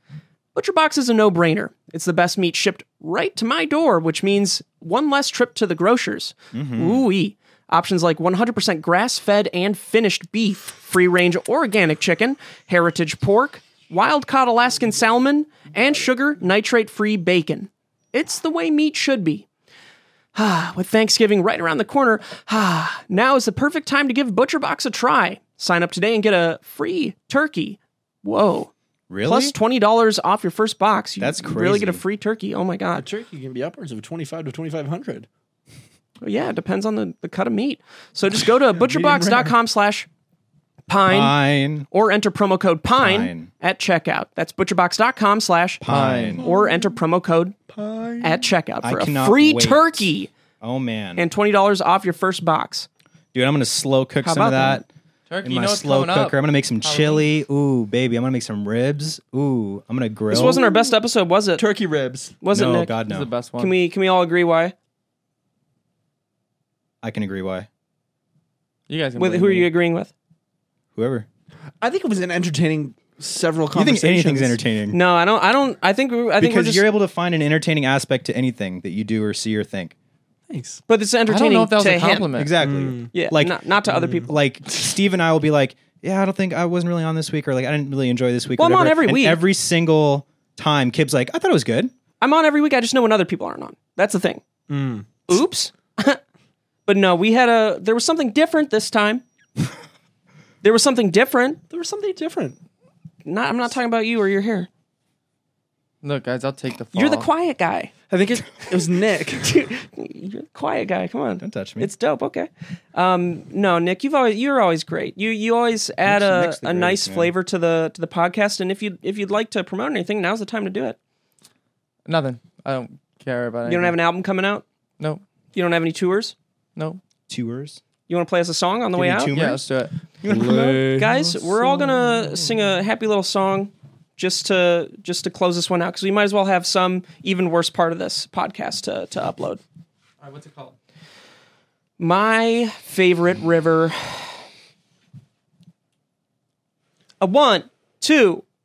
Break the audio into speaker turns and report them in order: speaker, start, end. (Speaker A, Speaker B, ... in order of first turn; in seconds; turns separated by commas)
Speaker A: 0.5-19.5, Speaker B: 6.5-7.1, Speaker A: 20.4-33.1, Speaker B: 29.1-29.6, Speaker B: 31.2-32.0, Speaker C: 32.9-35.3, Speaker A: 36.2-40.1, Speaker C: 38.7-39.6, Speaker A: 40.9-41.4, Speaker B: 41.1-41.9, Speaker A: 41.9-47.5, Speaker B: 43.0-43.5, Speaker B: 45.8-46.4, Speaker D: 45.9-46.4, Speaker C: 46.4-46.8, Speaker C: 47.7-48.5, Speaker A: 48.2-50.3, Speaker B: 48.8-50.1, Speaker B: 50.6-51.3, Speaker A: 51.2-52.9, Speaker B: 53.3-54.9, Speaker A: 54.2-54.8, Speaker D: 55.3-57.3, Speaker B: 55.4-60.7, Speaker A: 60.3-61.6, Speaker C: 60.4-61.0, Speaker C: 61.6-62.4, Speaker A: 62.4-62.9, Speaker B: 62.5-63.3, Speaker D: 63.1-63.8, Speaker A: 63.6-64.8, Speaker B: 67.0-67.7, Speaker D: 68.9-69.7, Speaker A: 69.2-70.1, Speaker B: 71.0-71.3, Speaker C: 71.8-74.6, Speaker B: 73.7-75.0, Speaker A: 74.9-76.9, Speaker B: 76.4-80.0, Speaker C: 80.5-80.8, Speaker A: 80.9-82.3, Speaker D: 81.3-82.6, Speaker B: 82.3-91.9, Speaker C: 82.6-83.1, Speaker A: 83.1-84.3, Speaker C: 83.9-84.3, Speaker A: 88.6-89.4, Speaker A: 92.2-94.4, Speaker C: 94.7-95.2, Speaker A: 95.3-96.2, Speaker A: 96.9-99.2, Speaker A: 100.6-101.6, Speaker C: 101.7-102.6, Speaker A: 103.2-104.7, Speaker D: 106.0-107.3, Speaker A: 106.9-107.9, Speaker C: 108.1-109.7, Speaker A: 109.4-121.0, Speaker B: 111.4-111.9, Speaker B: 116.0-117.3, Speaker D: 122.1-124.0, Speaker A: 123.7-124.7, Speaker A: 125.5-126.3, Speaker D: 126.8-127.0, Speaker B: 127.3-127.8, Speaker A: 128.1-129.3, Speaker B: 128.9-129.7, Speaker D: 129.3-129.9, Speaker B: 130.2-132.4, Speaker C: 130.3-131.1, Speaker A: 130.9-139.6, Speaker D: 140.2-140.7, Speaker A: 142.0-144.4, Speaker A: 147.2-148.4